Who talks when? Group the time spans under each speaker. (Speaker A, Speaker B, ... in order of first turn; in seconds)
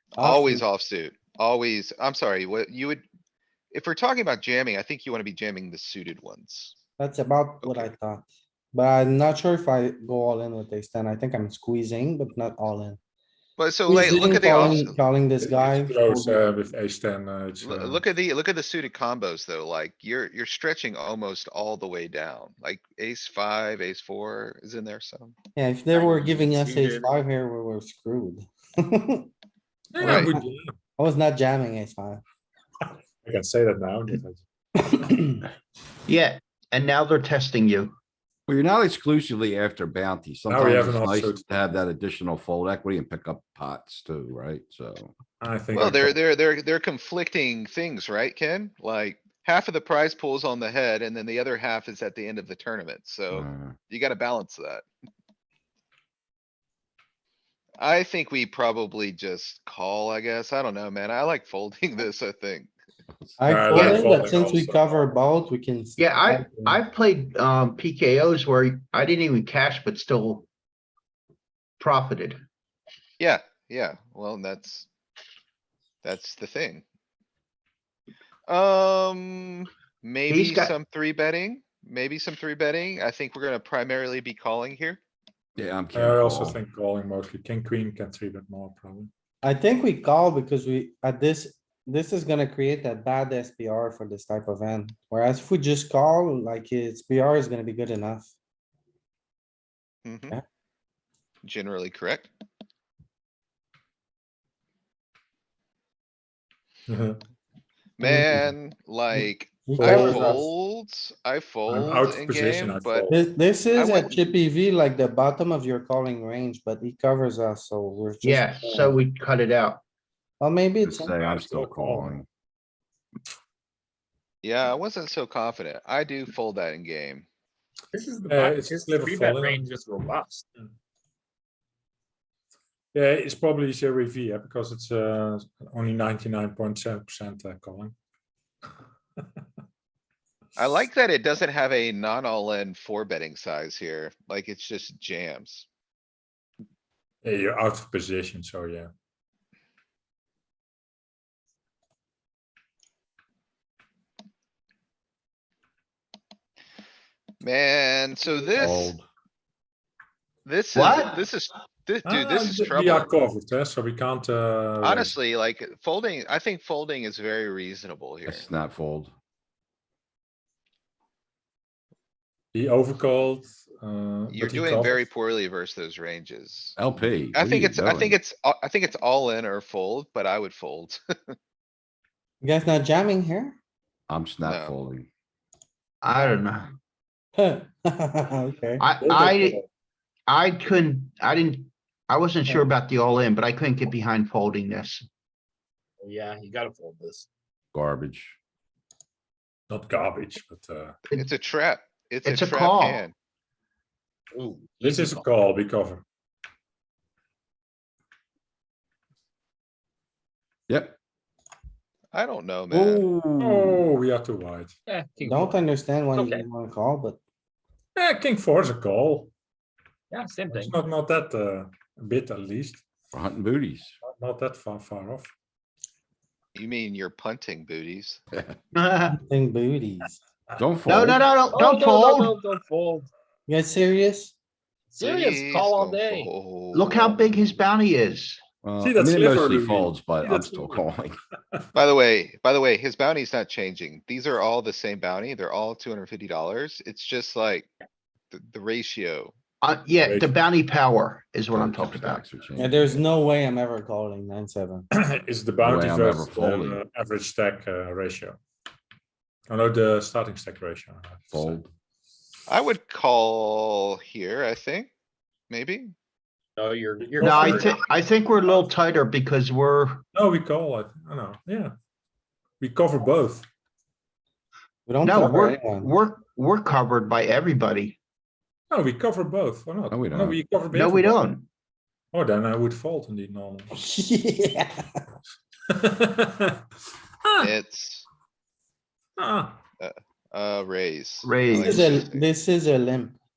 Speaker A: 0.2-0.7, 7.0-13.0, 13.9-16.4, 25.6-29.3, 30.0-30.4, 31.0-32.2, 34.8-35.5, 63.4-66.8, 89.4-98.3, 108.0-108.5, 109.7-110.5, 113.1-119.0, 120.4-121.1, 182.4-183.6, 187.4-188.9, 215.2-217.2, 229.2-230.2, 233.5-234.3, 252.6-254.9, 274.9-275.9, 283.7-284.9, 291.5-293.2
Speaker B: 0.2-3.0, 3.7-6.8, 7.6-7.9, 13.6-15.0, 17.6-25.4, 30.0-30.3, 45.7-54.9, 57.8-62.7, 73.2-74.9, 76.0-76.8, 78.5-85.0, 100.0-100.4, 101.4-102.3, 108.0-113.1, 113.7-114.3, 124.4-127.3, 140.6-145.7, 157.4-158.9, 160.4-163.1, 164.8-168.5, 174.3-176.8, 177.3-181.3, 184.4-184.7, 201.1-203.1, 212.1-213.1, 226.6-228.2, 235.0-237.6, 241.8-247.7, 248.3-249.3, 262.5-264.9, 265.5-265.9, 287.4-288.1, 289.8-292.3
Speaker C: 15.4-18.0, 29.9-30.8, 33.2-34.4, 40.5-41.4, 45.4-46.2, 63.4-65.1, 85.9-89.1, 106.9-107.2, 109.8-110.3, 111.7-113.2, 121.2-122.2, 128.3-129.7, 132.9-137.9, 147.2-148.9, 162.1-165.2, 172.5-175.0, 189.1-189.6, 199.7-200.9, 204.8-206.0, 213.4-214.8, 218.0-219.3, 220.5-222.8, 224.0-225.3, 238.8-240.9, 250.0-250.3, 254.9-258.4, 259.5-261.6, 267.0-267.8, 270.1-271.7, 272.6-273.5, 278.7-281.2, 282.1-283.7, 285.7-286.6, 289.2-289.6
Speaker D: 25.9-27.1, 127.9-130.4, 196.0-197.3, 204.3-205.3, 214.9-215.6, 216.1-216.4, 220.1-220.8, 231.5-233.1, 234.9-236.3, 266.6-267.8
Speaker E: 36.1-38.0, 63.7-64.1, 66.0-70.5, 71.8-72.4, 80.3-80.8, 118.2-119.8, 160.8-161.3, 186.0-186.7, 188.8-189.6, 190.3-195.1, 202.2-203.0, 228.7-229.2, 230.9-232.4, 236.7-238.4, 249.6-252.2, 267.2-270.0, 275.0-278.0, 280.7-281.5, 291.2-292.0
Speaker F: 38.5-45.1, 53.3-53.8, 85.6-86.6, 120.8-122.3, 158.6-159.1, 168.3-169.1, 176.8-178.2, 184.1-185.1, 197.7-198.4, 210.7-211.0, 212.7-213.8, 223.1-224.0, 230.6-231.2, 238.6-241.2, 251.5-252.8, 255.6-256.8, 261.3-261.7, 279.9-280.4